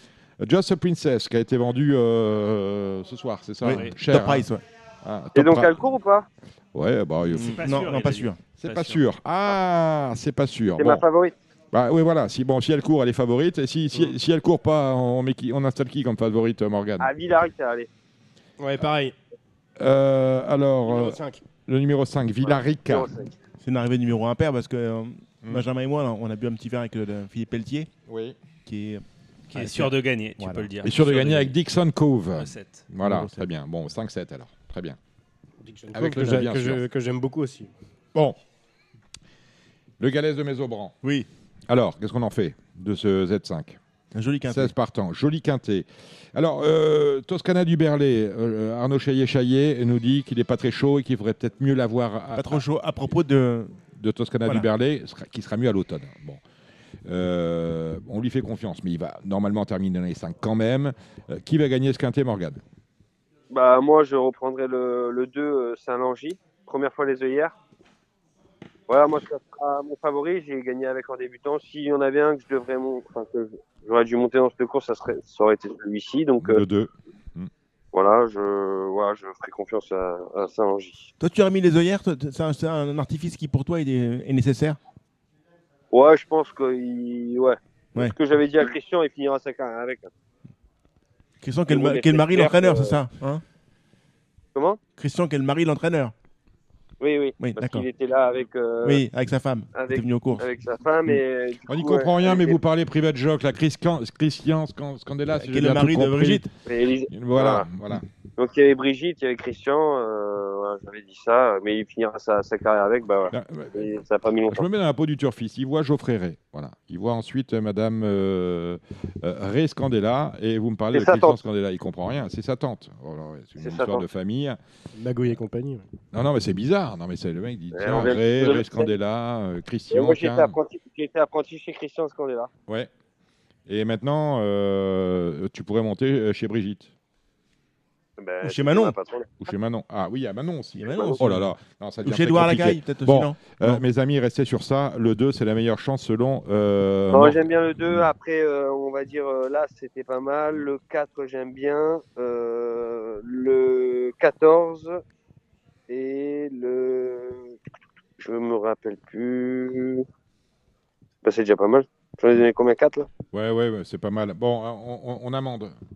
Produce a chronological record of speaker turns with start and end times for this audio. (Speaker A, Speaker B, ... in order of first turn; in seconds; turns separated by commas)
Speaker A: 0.4-4.5, Speaker B: 3.6-4.6, Speaker C: 3.7-4.0, Speaker A: 5.0-6.0, Speaker D: 5.3-6.3, Speaker A: 6.7-7.7, Speaker C: 7.3-9.1, Speaker B: 7.3-8.4, Speaker A: 8.6-11.0, Speaker D: 10.8-11.3, Speaker A: 11.7-17.1, Speaker D: 17.0-17.9, Speaker E: 18.6-19.2, Speaker A: 19.8-23.1, Speaker E: 20.8-21.4, Speaker D: 22.4-23.3, Speaker B: 23.6-27.9, Speaker A: 28.1-28.4, Speaker B: 28.7-30.7, Speaker C: 29.5-31.6, Speaker A: 30.8-35.0, Speaker C: 32.3-32.9, Speaker B: 33.0-33.5, Speaker E: 35.6-37.7, Speaker A: 35.9-36.8, Speaker A: 40.0-41.0, Speaker B: 41.0-41.3, Speaker A: 41.7-43.8, Speaker B: 44.1-44.7, Speaker A: 44.5-52.6, Speaker B: 52.4-53.8, Speaker A: 54.0-56.4, Speaker A: 57.1-62.6, Speaker D: 63.5-67.5, Speaker D: 68.9-76.6, Speaker A: 76.4-77.5, Speaker D: 77.9-81.1, Speaker B: 81.2-84.8, Speaker D: 85.9-90.1, Speaker B: 91.4-93.4, Speaker D: 91.7-93.0, Speaker D: 94.5-94.8, Speaker B: 95.0-96.1, Speaker D: 97.0-99.0, Speaker B: 97.4-97.9, Speaker B: 98.8-100.5, Speaker D: 99.7-102.6, Speaker A: 101.7-106.5, Speaker B: 105.4-106.5, Speaker D: 106.7-107.7, Speaker A: 107.1-108.0, Speaker D: 108.4-114.7, Speaker A: 113.3-113.9, Speaker A: 114.5-124.6, Speaker D: 120.9-121.4, Speaker D: 123.6-124.0, Speaker E: 125.0-125.9, Speaker A: 126.1-130.6, Speaker D: 127.7-128.9, Speaker D: 129.9-132.5, Speaker A: 133.7-136.9, Speaker D: 138.2-139.4, Speaker B: 138.4-139.0, Speaker A: 139.4-148.1, Speaker B: 140.8-141.4, Speaker B: 142.0-143.8, Speaker D: 147.1-155.0, Speaker D: 155.9-157.6, Speaker D: 158.2-160.1, Speaker D: 161.2-163.1, Speaker A: 163.3-165.8